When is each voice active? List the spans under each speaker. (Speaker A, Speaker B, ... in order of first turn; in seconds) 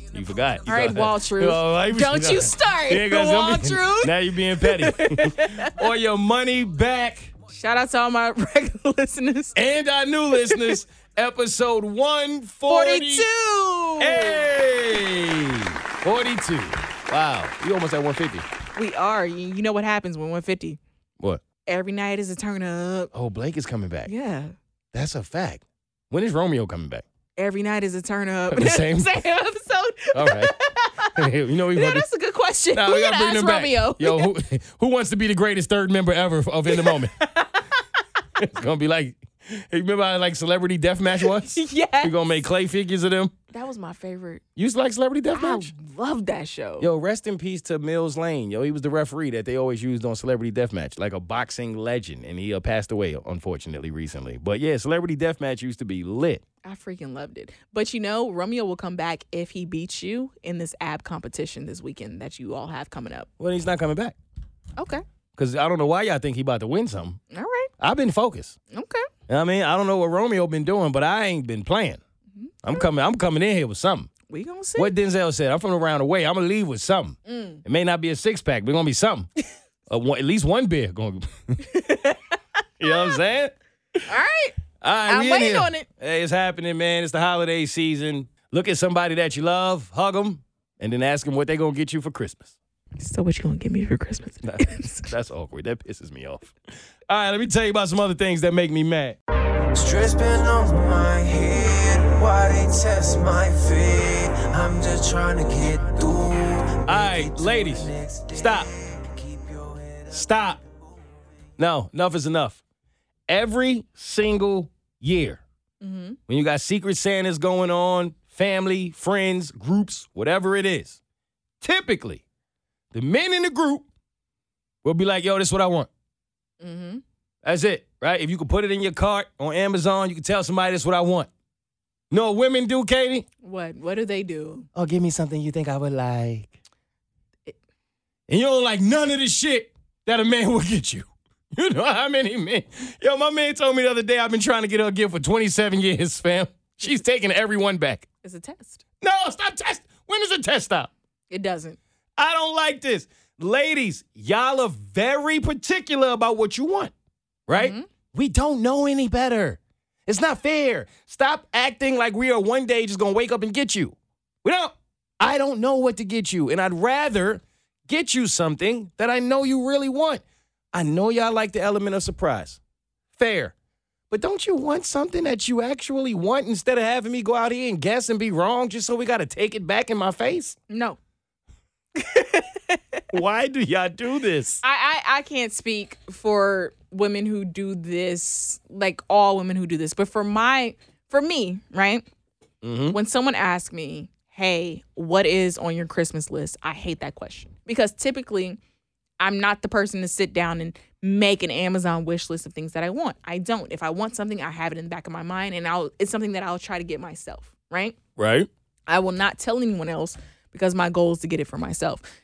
Speaker A: 0.1-7.3, 9.6-13.3, 14.0-18.5, 23.1-24.1, 24.9-27.0, 28.5-29.1, 30.1-30.6, 31.1-32.0, 32.7-37.1, 38.4-43.3, 44.6-45.7, 46.8-56.4, 63.4-64.2, 65.4-67.2, 67.8-68.6, 69.3-72.0, 72.6-74.1, 74.8-79.3, 79.9-81.7, 82.8-83.5, 84.8-92.5, 94.4-96.5, 97.1-99.2, 106.9-108.7, 110.1-110.6, 111.6-112.6, 113.3-115.4, 116.3-121.0, 121.6-122.2, 122.9-123.8, 124.8-125.9, 127.4-131.3, 132.1-133.2, 134.8-136.5, 138.3-148.1, 149.0-150.9, 152.2-156.9, 157.5-170.2, 170.7-172.6, 173.2-173.5, 174.1-180.6, 183.1-184.6, 192.6-193.0, 208.2-208.5
Speaker B: 0.7-5.9, 7.5-9.6, 10.3-10.8, 12.7-14.5, 18.8-20.8, 21.7-23.1, 24.1-24.6, 27.4-34.3, 36.7-37.8, 41.2-42.4, 43.5-44.4, 45.3-46.9, 56.6-63.3, 64.8-65.0, 67.3-67.7, 68.7-69.1, 72.4-72.8, 74.3-74.9, 77.3-77.6, 81.6-83.2, 84.1-85.9, 93.0-95.1, 115.8-116.2, 126.6-127.0, 133.4-134.7, 148.2-148.8, 151.3-151.8, 157.5-157.9, 180.7-181.0, 182.0-183.0, 184.6-192.1, 192.9-198.6, 199.2-208.0, 208.9-212.0
Speaker C: 99.7-110.6